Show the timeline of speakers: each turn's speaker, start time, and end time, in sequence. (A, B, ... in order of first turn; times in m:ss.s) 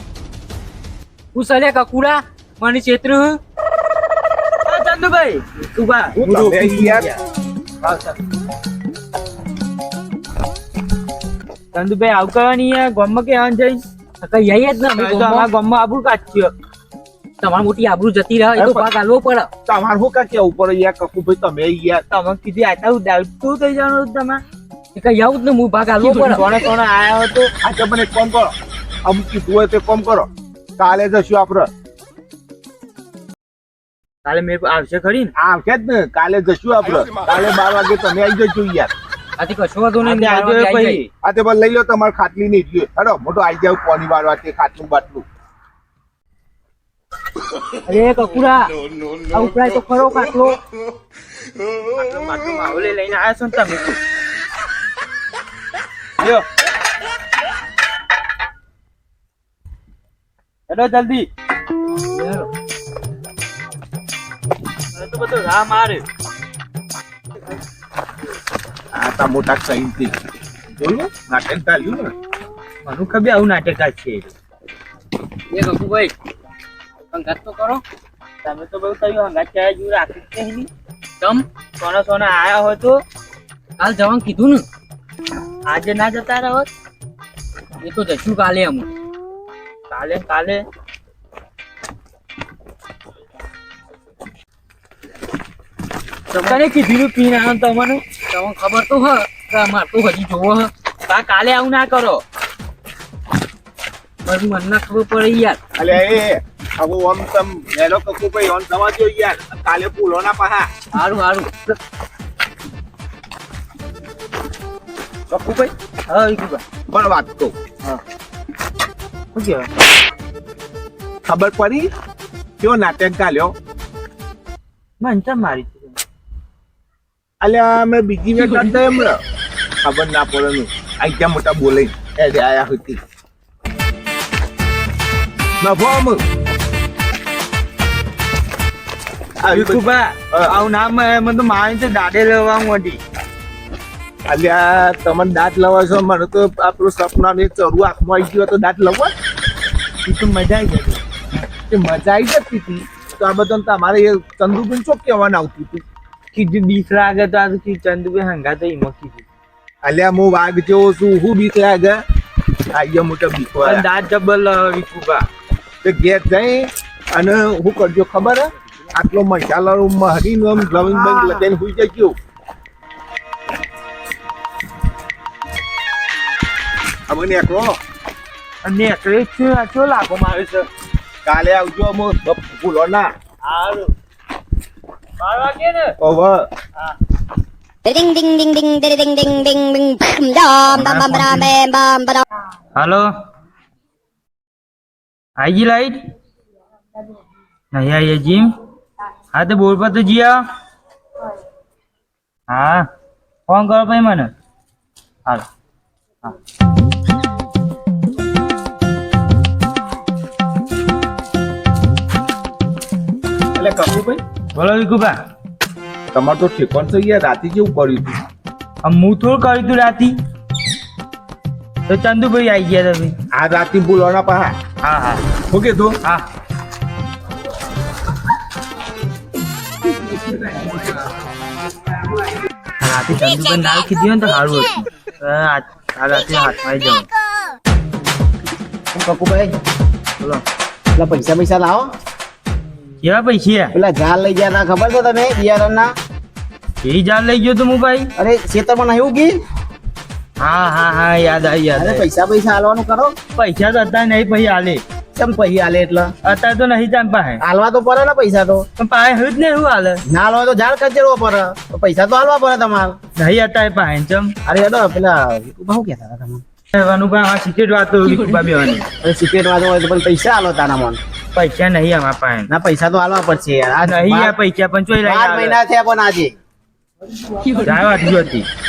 0:01.3-0:03.4 A
0:04.6-0:06.7 B
0:06.2-0:07.2 C
0:07.8-0:08.1 B
0:11.7-0:13.8 B
0:14.2-0:15.5 A
0:14.9-0:16.5 B
0:17.4-0:19.5 A
0:18.6-0:18.9 C
0:19.6-0:22.0 C
0:22.1-0:24.4 B
0:24.9-0:26.4 A
0:26.0-0:27.5 D
0:27.6-0:31.7 C
0:34.2-0:35.3 B
0:35.4-0:38.9 C
0:39.4-0:41.0 A
0:40.0-0:41.0 B
0:41.2-0:45.2 C
0:47.8-0:48.7 A
0:49.3-0:50.6 A
0:51.9-0:54.0 B
0:56.2-0:56.4 B
1:00.7-1:01.3 B
1:02.1-1:02.5 A
1:04.9-1:06.0 B
1:08.9-1:10.1 C
1:10.8-1:12.1 C
1:12.8-1:14.3 B
1:15.5-1:16.1 A
1:17.1-1:17.8 A
1:18.4-1:20.7 B
1:21.8-1:23.0 B
1:23.8-1:24.6 A
1:25.7-1:26.7 B
1:27.8-1:28.9 A
1:29.9-1:30.6 B
1:36.3-1:36.6 A
1:36.4-1:38.0 B
1:38.3-1:40.7 A
1:41.1-1:42.2 B
1:44.2-1:45.6 A
1:45.8-1:50.7 C
1:50.9-1:51.5 A
1:55.3-1:55.7 C
1:56.1-1:56.6 B
1:56.9-1:57.5 C
1:59.3-1:59.7 B
2:01.2-2:01.9 C
2:02.6-2:03.5 C
2:05.0-2:06.0 B
2:07.4-2:09.2 C
2:08.4-2:08.7 A
2:09.8-2:13.0 C
2:15.6-2:16.2 C
2:19.4-2:20.5 C
2:19.5-2:23.0 B
2:24.3-2:29.1 C
2:30.0-2:31.0 B
2:31.7-2:35.8 C
2:36.3-2:39.2 B
2:39.8-2:42.0 C
2:42.7-2:43.8 C
2:43.6-2:45.2 B
2:45.8-2:52.2 C
2:50.8-2:51.4 D
2:57.1-2:57.8 C
2:58.6-3:00.6 B
3:01.2-3:03.1 C
3:03.4-3:03.9 B
3:05.2-3:06.0 B
3:06.0-3:06.5 C
3:07.8-3:12.2 E
3:10.7-3:11.5 B
3:12.8-3:13.1 B
3:15.4-3:16.0 B
3:17.7-3:18.5 B
3:19.3-3:20.4 B
3:22.5-3:22.9 B
3:23.5-3:24.3 B
3:33.5-3:34.2 C
3:34.5-3:35.2 B
3:36.1-3:38.2 C
3:38.8-3:40.1 B
3:41.9-3:43.2 B
3:43.3-3:44.6 C
3:44.8-3:45.2 B
3:45.5-3:46.0 C
3:52.8-3:57.1 B
3:58.9-3:59.5 D
4:01.0-4:01.9 D
4:03.0-4:03.7 B
4:03.7-4:05.9 D
4:06.8-4:08.1 B
4:08.2-4:09.3 D
4:10.4-4:12.0 B
4:11.7-4:13.2 D
4:13.4-4:14.8 B
4:15.1-4:16.1 D
4:16.2-4:17.4 B
4:17.4-4:18.6 D
4:18.8-4:20.0 B
4:20.1-4:23.0 D
4:23.2-4:24.3 B
4:24.4-4:26.4 D
4:26.7-4:28.8 B
4:28.1-4:28.4 A
4:29.0-4:31.0 D
4:31.3-4:32.5 B
4:32.5-4:34.4 D
4:33.8-4:35.6 B
4:35.0-4:36.4 D
4:37.3-4:37.8 A
4:37.6-4:38.5 B